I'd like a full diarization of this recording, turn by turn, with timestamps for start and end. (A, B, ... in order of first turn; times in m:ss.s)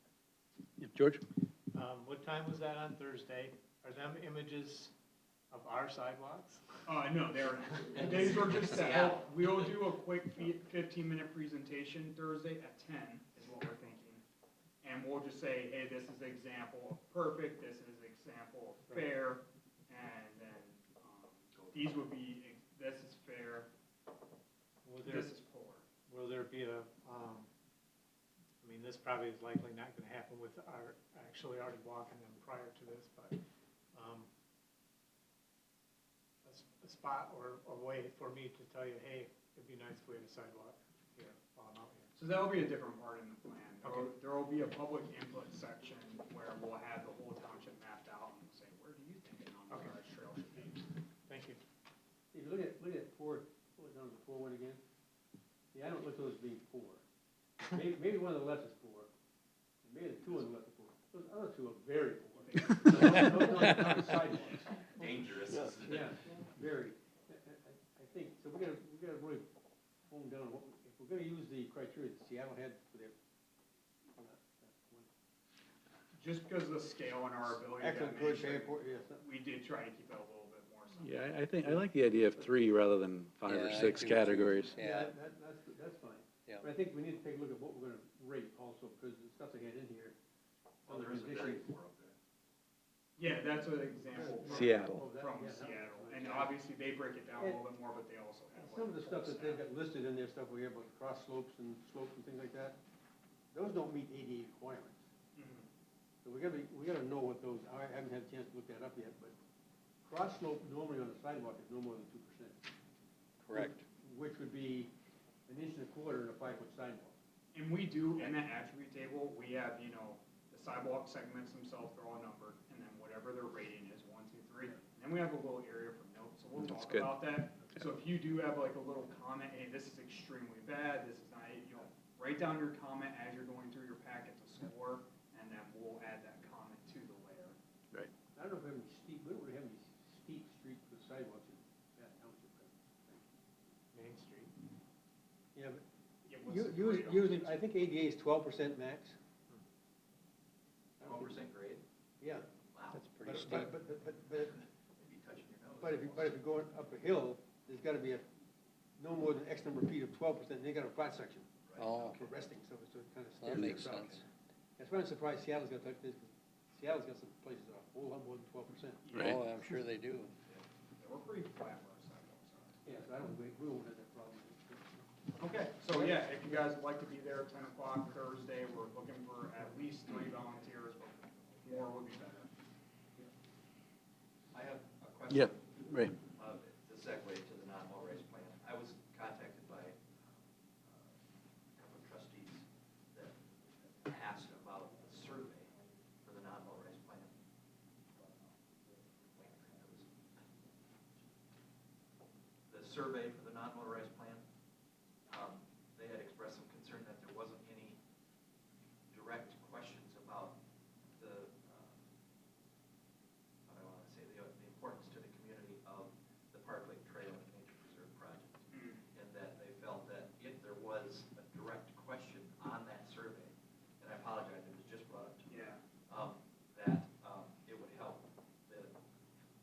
0:00.8-0:01.2 A
0:01.7-0:04.9 B
0:05.5-0:06.6 B
0:06.9-0:14.2 C
0:08.7-0:09.3 D
0:14.8-0:23.7 C
0:24.8-0:25.3 B
0:25.0-0:25.8 C
0:26.1-0:27.5 B
0:28.6-0:33.4 B
0:34.0-0:34.3 B
0:36.4-0:42.1 B
0:42.2-0:50.9 C
0:43.8-0:44.1 B
0:49.7-0:50.0 B
0:51.3-0:51.6 B
0:52.3-0:54.8 E
0:55.7-0:57.0 E
0:57.6-0:59.1 E
0:59.8-1:09.5 E
1:02.4-1:03.8 C
1:05.0-1:06.1 D
1:10.1-1:13.2 E
1:14.2-1:15.1 E
1:16.2-1:21.2 C
1:17.8-1:19.2 E
1:21.0-1:24.8 A
1:23.5-1:25.1 F
1:24.8-1:30.2 E
1:30.9-1:32.2 D
1:30.9-1:31.6 E
1:33.2-1:39.6 C
1:34.1-1:36.6 E
1:34.5-1:35.0 A
1:37.4-1:37.6 E
1:38.6-1:42.8 E
1:43.5-1:45.0 E
1:45.4-1:45.7 C
1:46.2-1:49.4 E
1:50.0-1:52.6 E
1:53.5-1:53.7 F
1:53.5-1:54.9 E
1:55.5-1:57.2 E
1:57.5-2:17.6 C
2:06.6-2:07.2 A
2:18.4-2:23.3 E
2:23.9-2:24.5 B
2:25.5-2:25.8 E
2:26.3-2:27.6 C
2:26.4-2:29.2 E
2:31.0-2:31.4 E
2:31.0-2:31.8 D
2:32.2-2:32.5 E
2:32.7-2:33.7 D
2:32.9-2:33.7 F
2:33.2-2:34.6 E
2:34.4-2:36.4 D
2:35.8-2:38.2 E
2:39.0-2:41.5 E
2:41.7-2:42.2 D
2:41.8-2:42.2 F
2:42.1-2:44.2 E
2:43.4-2:44.2 F
2:44.8-2:49.0 E
2:49.0-2:49.4 C
2:49.1-2:49.4 A
2:49.2-2:50.3 F
2:51.0-2:52.8 C
2:52.8-2:55.1 E
2:55.4-3:02.5 C
2:55.9-2:56.6 E
3:04.5-3:11.2 D
3:05.3-3:06.2 A
3:11.8-3:17.3 D
3:18.2-3:18.5 D
3:19.2-3:20.4 D
3:22.7-3:24.4 D
3:25.3-3:28.0 D
3:29.1-3:30.6 D
3:31.2-3:32.0 D
3:33.7-3:49.0 D
3:38.7-3:39.0 C
3:45.5-3:45.8 C